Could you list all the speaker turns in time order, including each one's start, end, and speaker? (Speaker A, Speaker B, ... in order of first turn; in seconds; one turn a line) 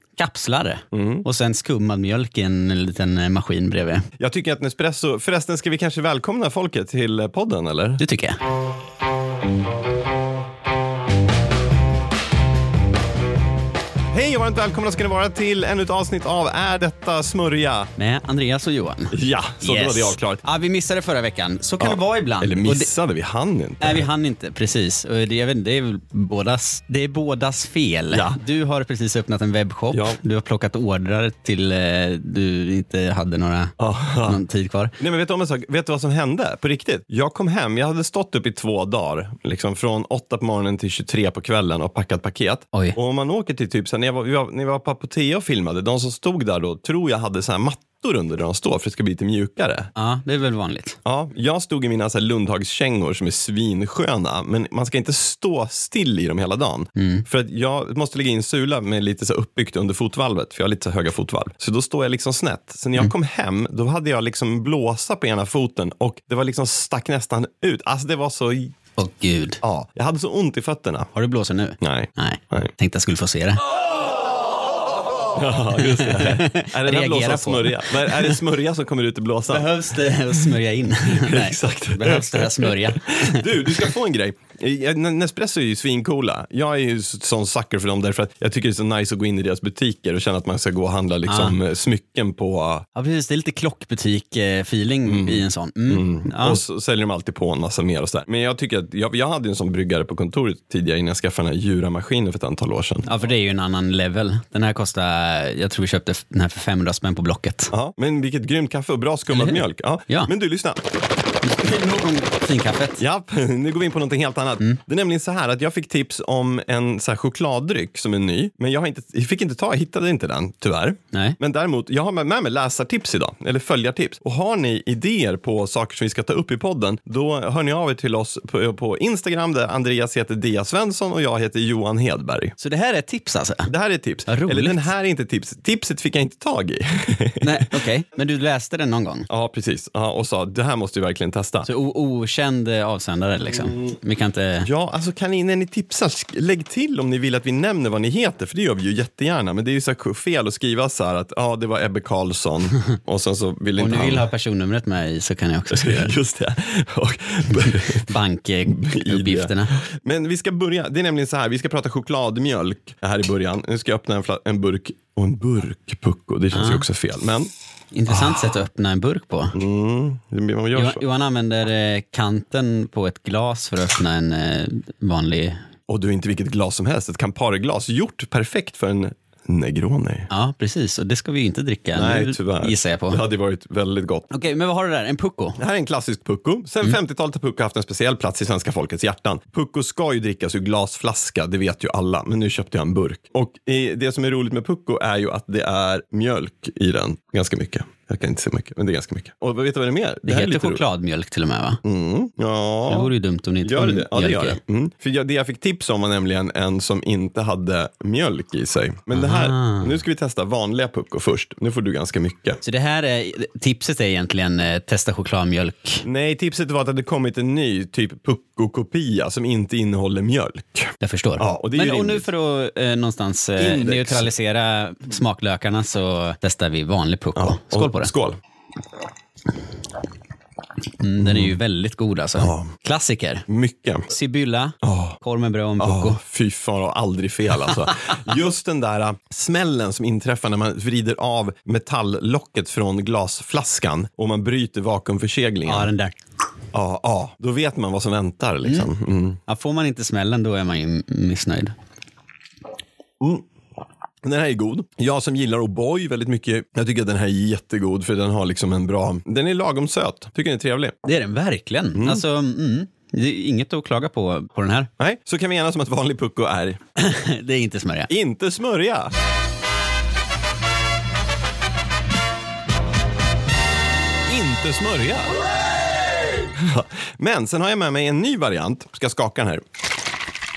Speaker A: 0.2-4.1
Speaker B: 0.9-1.3
Speaker B: 4.2-8.0
Speaker A: 8.0-8.4
Speaker B: 14.1-17.9
Speaker A: 18.0-22.9
Speaker B: 19.1-20.4
Speaker B: 21.8-24.1
Speaker A: 23.8-33.7
Speaker B: 28.1-28.4
Speaker B: 29.9-30.2
Speaker B: 33.8-34.4
Speaker A: 34.2-34.9
Speaker B: 35.0-49.9
Speaker A: 50.0-51.0
Speaker B: 51.0-68.8
Speaker A: 57.0-57.2
Speaker A: 69.0-69.6
Speaker B: 69.6-71.1
Speaker A: 71.2-73.6
Speaker B: 71.8-72.7
Speaker B: 75.3-79.7
Speaker A: 75.9-78.4
Speaker A: 79.5-83.9
Speaker B: 81.1-92.9
Speaker A: 91.3-91.6
Speaker A: 93.0-96.6
Speaker B: 95.1-103.1
Speaker A: 103.0-107.7
Speaker B: 107.7-110.8
Speaker A: 109.3-110.3
Speaker A: 111.4-113.0
Speaker B: 113.0-132.5
Speaker A: 121.1-121.4
Speaker A: 132.6-133.7
Speaker B: 133.7-137.9
Speaker A: 134.3-134.9
Speaker A: 137.4-139.3
Speaker B: 139.3-141.7
Speaker A: 141.7-144.7
Speaker B: 143.5-143.8
Speaker B: 144.6-154.3
Speaker A: 153.8-156.2
Speaker B: 155.7-158.1
Speaker A: 157.5-159.8
Speaker B: 158.7-167.5
Speaker A: 166.5-166.8
Speaker A: 167.9-169.6
Speaker B: 168.1-168.5
Speaker B: 169.5-171.0
Speaker A: 170.8-175.7
Speaker B: 175.9-180.3
Speaker A: 180.3-183.2
Speaker B: 181.9-184.3
Speaker A: 184.3-185.6
Speaker B: 185.6-200.8
Speaker A: 200.3-201.8
Speaker B: 201.8-203.1
Speaker A: 202.9-204.6
Speaker B: 203.6-212.6
Speaker A: 209.1-210.0
Speaker A: 212.6-216.1
Speaker B: 216.0-222.2
Speaker A: 221.0-228.1
Speaker B: 223.6-224.3
Speaker B: 227.4-228.4
Speaker A: 231.0-233.5
Speaker B: 231.2-231.6
Speaker B: 232.4-232.7
Speaker B: 233.5-234.1
Speaker A: 234.1-236.2
Speaker B: 234.8-235.2
Speaker B: 235.8-245.9
Speaker A: 245.7-246.2
Speaker B: 246.7-249.4
Speaker A: 249.5-251.7
Speaker B: 253.2-253.4
Speaker B: 254.2-261.0
Speaker A: 261.0-264.9
Speaker B: 261.9-262.2
Speaker B: 265.0-266.8
Speaker A: 267.0-268.1
Speaker B: 268.1-269.1
Speaker B: 274.3-275.4
Speaker B: 276.6-279.6